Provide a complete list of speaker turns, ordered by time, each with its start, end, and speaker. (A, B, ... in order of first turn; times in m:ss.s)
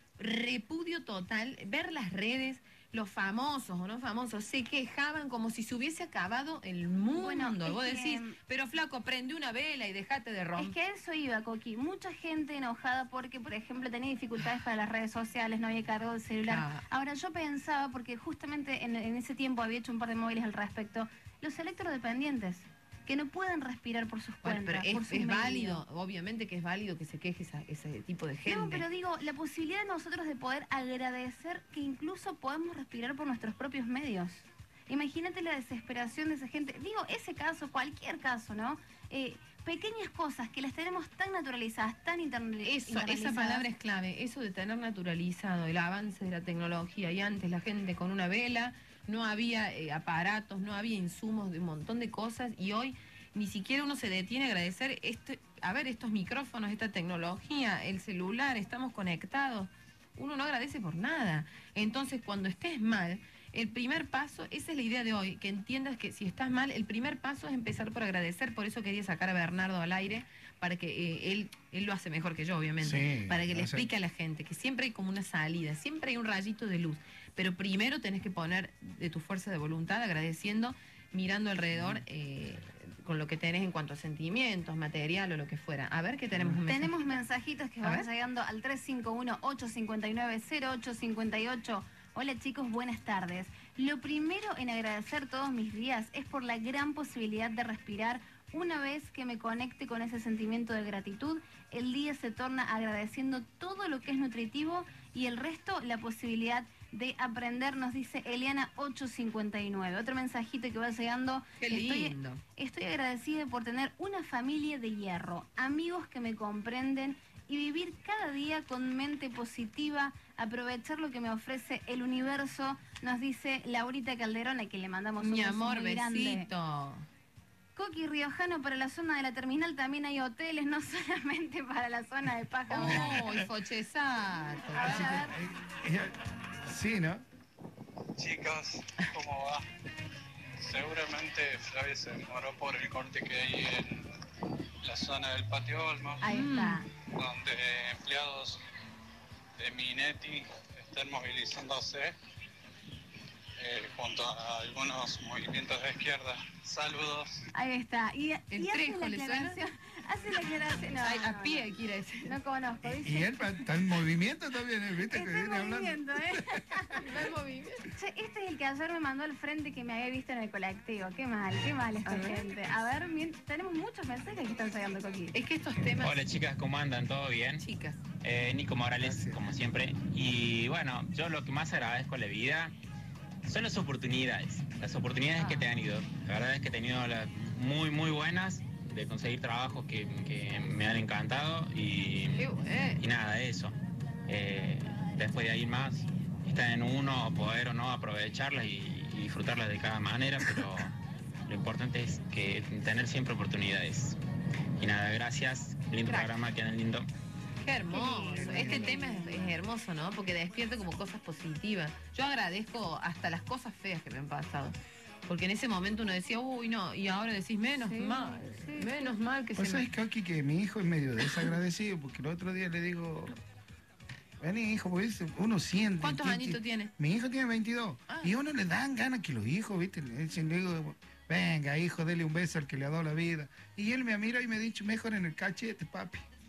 0:00.2-0:10.7 A
0:07.1-0:08.4 B
0:10.6-0:25.8 B
0:16.5-0:16.8 A
0:24.4-0:28.8 A
0:28.4-0:43.7 B
0:42.6-1:27.2 A
1:12.8-1:13.9 C
1:26.6-2:06.5 B
1:51.6-1:52.4 A
2:05.2-2:07.0 A
2:07.8-2:13.2 B
2:12.7-2:15.2 A
2:12.8-2:13.4 C
2:14.7-2:15.4 B
2:14.8-2:16.1 C
2:16.6-2:17.2 C
2:18.2-2:19.6 D
2:20.6-2:24.1 D
2:24.8-2:26.2 D
2:26.2-2:26.8 B
2:26.2-2:26.8 A
2:27.2-2:28.6 D
2:29.6-2:32.1 D
2:33.6-2:37.4 D
2:37.5-2:41.7 B
2:38.5-2:39.6 A
2:41.0-2:42.4 A
2:42.2-2:43.4 B
2:42.8-2:46.4 C
2:45.0-2:47.0 B
2:47.0-2:47.8 A
2:47.9-2:55.3 B
2:52.0-2:52.5 A
2:55.3-2:56.2 A
2:56.0-2:57.6 E
2:57.6-2:58.0 A
2:58.2-3:02.7 E
2:59.0-2:59.4 C
3:03.4-3:12.4 E
3:05.4-3:05.7 A
3:12.4-3:13.0 A
3:13.0-3:13.7 E
3:14.3-3:20.9 E
3:21.5-3:24.2 E
3:24.8-3:27.1 E
3:26.0-3:26.3 A
3:27.6-3:39.9 A
3:27.9-3:29.5 B
3:28.3-3:29.0 C
3:37.8-3:39.1 B
3:39.6-3:43.4 C
3:41.2-3:41.5 A
3:44.4-3:56.2 C
3:46.0-3:46.9 A
3:48.1-3:48.3 A